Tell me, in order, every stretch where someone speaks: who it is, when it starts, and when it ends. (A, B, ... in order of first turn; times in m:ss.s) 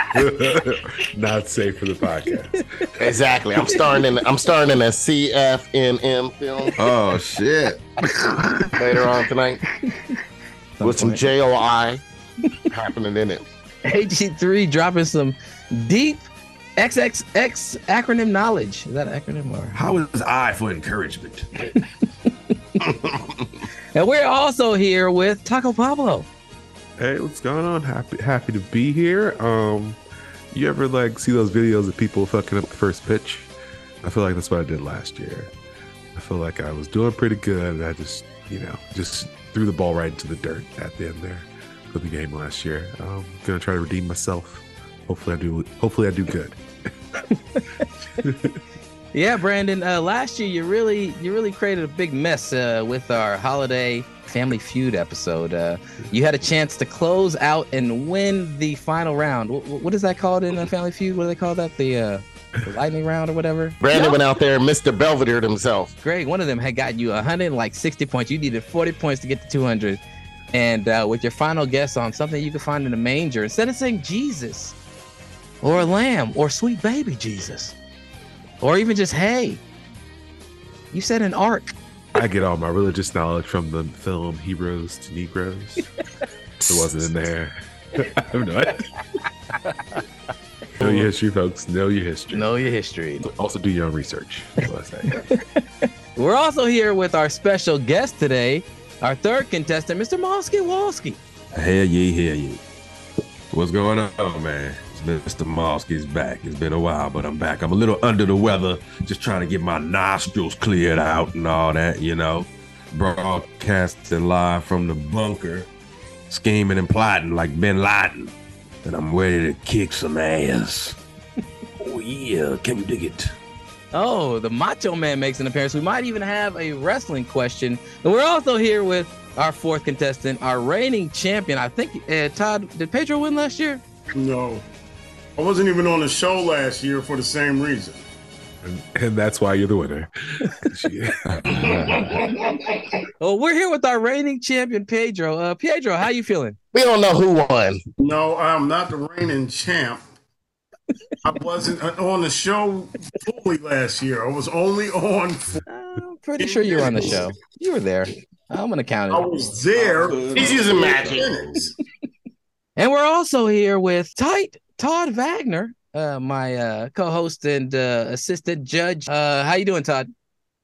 0:00.1-0:02.6 A
0:03.0-0:06.8 B
0:06.8-0:07.8 C
0:08.8-0:09.6 B
0:10.8-0:11.2 D
0:10.8-0:12.0 B
0:12.7-0:13.4 B
0:13.8-0:16.2 D
0:16.8-0:19.8 D
0:19.7-0:21.5 C
0:23.9-0:26.3 D
0:27.0-0:30.0 A
0:30.5-0:33.5 A
0:34.0-0:35.5 A
0:36.1-0:46.6 A
0:47.5-0:47.8 D
0:48.2-0:48.6 A
0:49.1-1:04.2 D
1:03.8-1:05.9 B
1:06.0-1:10.0 D
1:10.5-1:14.7 D
1:15.6-1:17.7 D
1:18.6-1:19.6 D
1:20.9-1:21.7 D
1:22.1-1:25.8 A
1:26.7-1:28.9 A
1:30.8-1:32.5 A
1:30.8-1:31.0 D
1:32.3-1:33.2 D
1:33.2-1:35.3 A
1:35.2-1:35.4 D
1:36.2-1:41.2 D
1:41.5-1:42.6 C
1:43.5-1:55.7 C
1:56.3-1:58.3 C
1:58.8-2:01.0 C
2:01.8-2:03.3 C
2:03.9-2:13.8 D
2:14.1-2:14.6 E
2:15.4-2:18.0 E
2:18.6-2:22.0 A
2:23.2-2:26.6 D
2:26.7-2:27.8 B
2:28.0-2:30.0 E
2:31.2-2:35.6 E
2:35.7-2:39.3 D
2:36.4-2:37.2 E
2:39.1-2:41.7 E
2:39.8-2:41.7 C
2:40.3-2:41.3 B
2:42.8-2:50.1 D